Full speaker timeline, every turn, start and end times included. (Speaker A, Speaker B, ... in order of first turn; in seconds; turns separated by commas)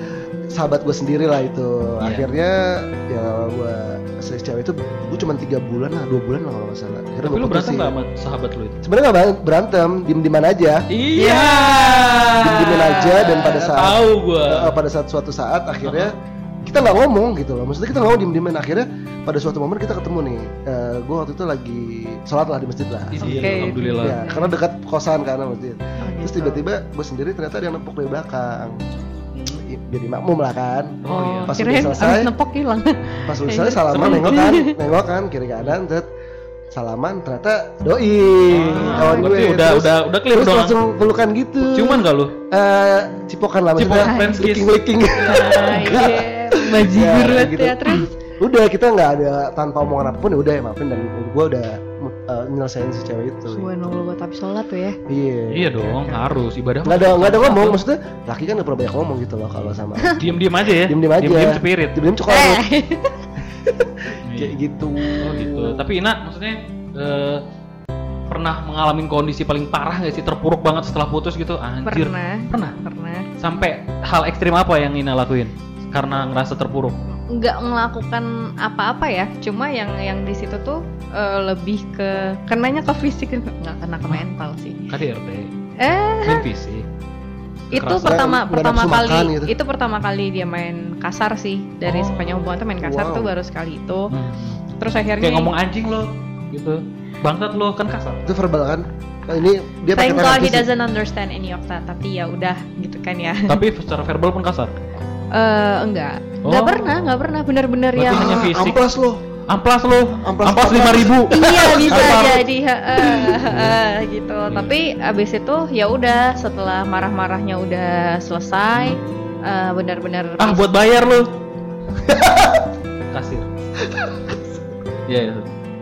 Speaker A: 0.5-7.9, Speaker B: 7.2-8.8, Speaker A: 8.8-10.9, Speaker B: 10.9-14.8, Speaker C: 11.2-13.5, Speaker A: 12.4-16.1, Speaker B: 15.8-16.1, Speaker A: 16.6-28.8, Speaker B: 23.1-24.2, Speaker C: 23.2-24.5, Speaker C: 26.0-26.6, Speaker B: 29.3-29.6, Speaker A: 29.5-32.3, Speaker B: 31.0-31.5, Speaker C: 31.1-34.7, Speaker A: 33.2-36.1, Speaker B: 33.9-34.4, Speaker A: 36.7-53.7, Speaker B: 38.5-40.8, Speaker C: 38.7-39.4, Speaker B: 41.6-42.4, Speaker B: 43.8-46.0, Speaker C: 44.0-44.4, Speaker C: 45.5-48.1, Speaker B: 47.0-47.5, Speaker C: 53.5-55.0, Speaker A: 55.1-56.1, Speaker B: 55.5-57.8, Speaker A: 56.8-62.6, Speaker B: 59.5-62.0, Speaker C: 62.3-63.2, Speaker A: 63.5-65.8, Speaker B: 64.2-64.6, Speaker B: 65.2-67.4, Speaker B: 68.3-72.8, Speaker C: 71.8-73.3, Speaker B: 73.4-77.0, Speaker C: 77.3-84.8, Speaker B: 84.9-85.5, Speaker C: 85.8-86.4, Speaker B: 86.2-86.8, Speaker B: 87.7-88.2, Speaker C: 87.7-94.1, Speaker A: 88.0-89.5, Speaker B: 91.8-92.5, Speaker A: 92.8-93.3, Speaker B: 94.1-94.6, Speaker C: 94.8-95.5, Speaker B: 95.2-98.2, Speaker A: 98.2-100.7, Speaker C: 99.9-103.6, Speaker B: 103.5-104.7, Speaker C: 105.3-108.6, Speaker B: 106.4-107.1, Speaker B: 108.0-108.8, Speaker A: 108.0-109.2, Speaker B: 109.5-112.4, Speaker A: 110.2-112.3, Speaker C: 111.3-120.7, Speaker A: 113.1-113.5, Speaker B: 113.5-113.8, Speaker B: 120.4-121.3, Speaker A: 122.0-122.7, Speaker B: 123.1-123.5, Speaker A: 123.8-124.5, Speaker B: 125.1-125.5